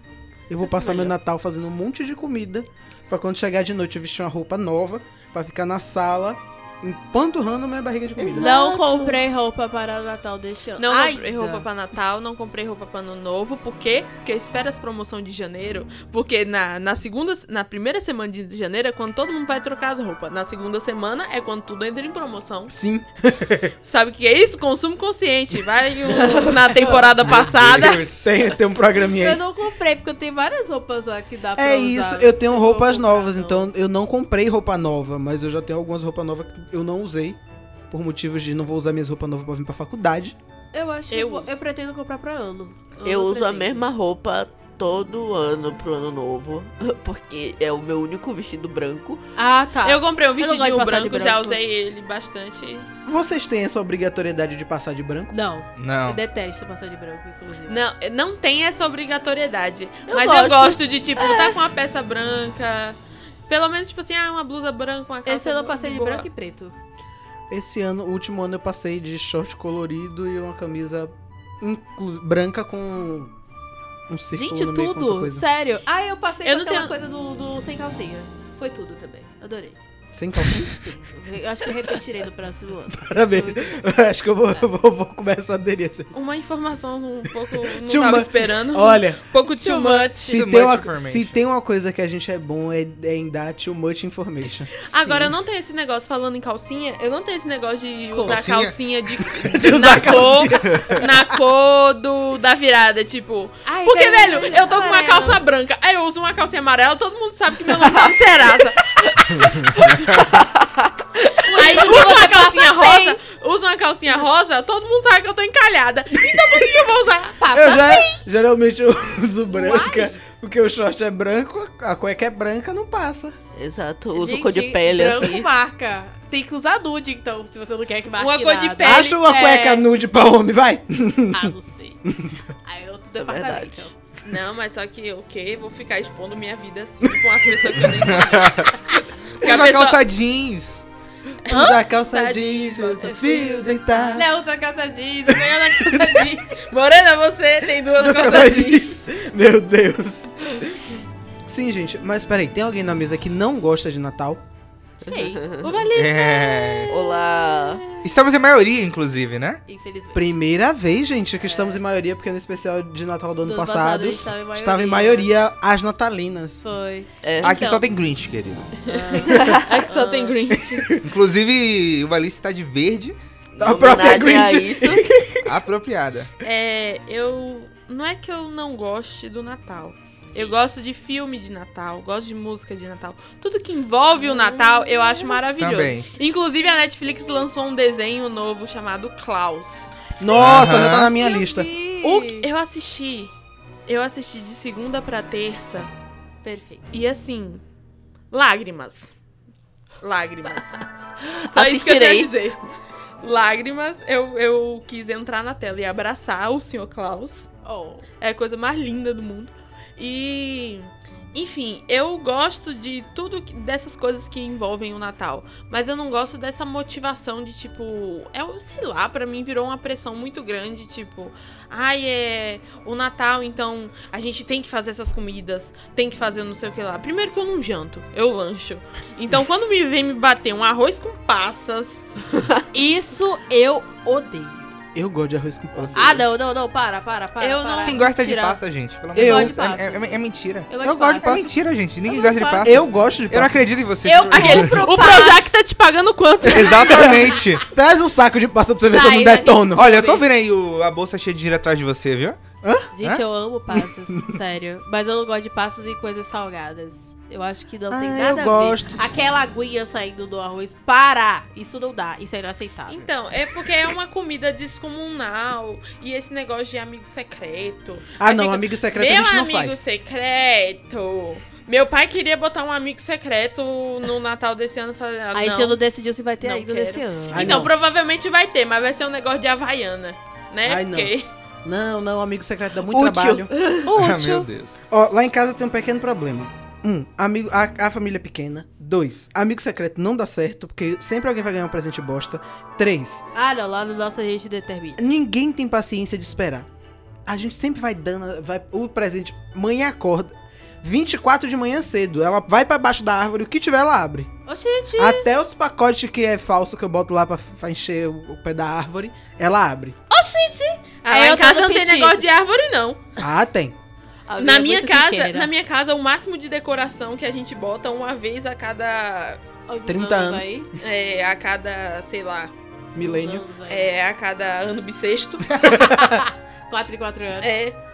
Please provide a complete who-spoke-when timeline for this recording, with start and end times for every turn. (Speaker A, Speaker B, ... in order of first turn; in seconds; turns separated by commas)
Speaker A: 0.5-8.5, Speaker B: 0.7-1.1, Speaker C: 8.2-9.2, Speaker B: 8.4-11.7, Speaker D: 10.8-22.7, Speaker A: 22.7-23.7, Speaker D: 23.8-28.1, Speaker B: 26.1-27.1, Speaker E: 27.2-28.3, Speaker A: 27.3-29.4, Speaker B: 29.1-33.7, Speaker A: 31.6-37.4, Speaker A: 37.9-40.4, Speaker B: 40.7-43.9, Speaker D: 41.1-41.5, Speaker C: 43.0-49.2, Speaker B: 49.4-51.6, Speaker D: 49.8-52.9, Speaker A: 53.1-55.3, Speaker B: 55.3-57.8, Speaker E: 55.8-56.2, Speaker D: 57.7-63.0, Speaker C: 60.1-61.6, Speaker D: 63.5-66.3, Speaker B: 65.3-66.8, Speaker A: 67.5-73.3, Speaker A: 74.1-75.4, Speaker B: 74.3-79.8, Speaker D: 76.5-76.9, Speaker A: 80.1-80.8, Speaker B: 80.4-83.8, Speaker A: 82.9-86.1, Speaker D: 86.1-90.3, Speaker A: 87.7-89.2, Speaker B: 89.5-90.3, Speaker A: 90.3-95.2, Speaker E: 90.3-91.4, Speaker D: 94.9-109.9, Speaker B: 98.1-98.4, Speaker E: 98.3-98.8, Speaker A: 99.4-101.1, Speaker E: 100.6-101.0, Speaker B: 103.7-105.4, Speaker C: 110.2-110.9, Speaker B: 111.4-113.2, Speaker D: 111.5-117.8, Speaker B: 117.4-118.2, Speaker A: 117.5-123.3, Speaker B: 119.5-120.2, Speaker C: 123.5-125.5, Speaker B: 124.2-129.9, Speaker D: 128.2-129.2, Speaker A: 128.8-131.5, Speaker B: 131.3-132.0, Speaker A: 132.1-132.4, Speaker B: 132.6-133.9, Speaker C: 133.2-133.9, Speaker D: 134.2-140.0, Speaker E: 138.0-138.8, Speaker E: 139.4-140.9, Speaker D: 141.5-144.2, Speaker A: 141.5-144.3, Speaker B: 141.5-141.8, Speaker B: 144.1-146.6, Speaker A: 145.8-146.2, Speaker D: 146.6-149.0, Speaker A: 148.0-150.9, Speaker A: 151.5-154.4, Speaker B: 155.1-155.4, Speaker C: 155.1-155.7, Speaker D: 155.6-158.1, Speaker E: 155.9-156.9, Speaker C: 156.9-158.0, Speaker E: 158.0-159.6, Speaker B: 159.7-160.4, Speaker A: 160.1-166.6, Speaker B: 161.4-161.8, Speaker B: 163.4-165.3, Speaker B: 166.6-167.8, Speaker C: 167.2-167.7, Speaker E: 167.4-168.8, Speaker D: 167.5-167.8, Speaker D: 168.8-170.9, Speaker B: 168.9-170.4, Speaker C: 169.3-169.6, Speaker A: 170.5-171.0, Speaker E: 171.0-173.2, Speaker C: 173.5-175.1, Speaker A: 173.6-175.6, Speaker E: 175.4-176.3, Speaker D: 176.4-190.0, Speaker B: 184.2-185.4, Speaker E: 185.6-186.1, Speaker A: 190.2-191.7, Speaker E: 190.3-191.1, Speaker B: 190.9-192.5, Speaker D: 192.0-193.3, Speaker D: 193.9-195.9, Speaker B: 196.4-196.9, Speaker D: 196.9-197.6, Speaker D: 198.3-199.1, Speaker D: 200.0-200.8, Speaker C: 201.2-202.3, Speaker D: 201.4-202.6, Speaker D: 203.2-207.5, Speaker B: 207.6-208.1, Speaker D: 208.2-232.1, Speaker B: 232.7-234.8, Speaker A: 234.9-236.2, Speaker B: 235.9-238.0, Speaker D: 237.4-238.6, Speaker E: 237.8-240.7, Speaker A: 239.2-239.6, Speaker B: 239.2-242.9, Speaker A: 240.8-241.5, Speaker E: 241.2-244.9, Speaker A: 242.6-243.6, Speaker B: 244.0-245.5, Speaker D: 244.3-247.2, Speaker E: 246.5-247.7, Speaker A: 247.6-249.9, Speaker B: 248.9-250.2, Speaker E: 249.8-252.4, Speaker A: 252.6-252.9, Speaker B: 252.9-263.1, Speaker A: 254.1-254.4, Speaker A: 257.9-259.0, Speaker D: 262.9-275.8, Speaker A: 268.2-269.9, Speaker B: 275.3-277.6, Speaker D: 276.4-281.3, Speaker A: 277.3-277.7, Speaker A: 280.6-281.1, Speaker A: 281.6-283.5, Speaker C: 282.9-283.9, Speaker B: 283.9-284.5, Speaker E: 283.9-284.8, Speaker A: 284.9-293.2, Speaker B: 293.4-295.0, Speaker A: 295.0-296.7, Speaker A: 297.3-304.3, Speaker B: 304.5-305.3, Speaker A: 305.0-310.0, Speaker B: 310.1-312.2, Speaker D: 311.0-313.0, Speaker A: 313.2-313.8, Speaker B: 314.3-315.5, Speaker D: 314.4-319.4, Speaker B: 319.7-320.7, Speaker A: 319.9-320.5, Speaker D: 320.8-322.5, Speaker A: 322.9-323.4, Speaker B: 323.0-323.9, Speaker D: 323.7-325.6, Speaker A: 325.6-326.2, Speaker B: 325.6-327.5, Speaker D: 327.4-327.8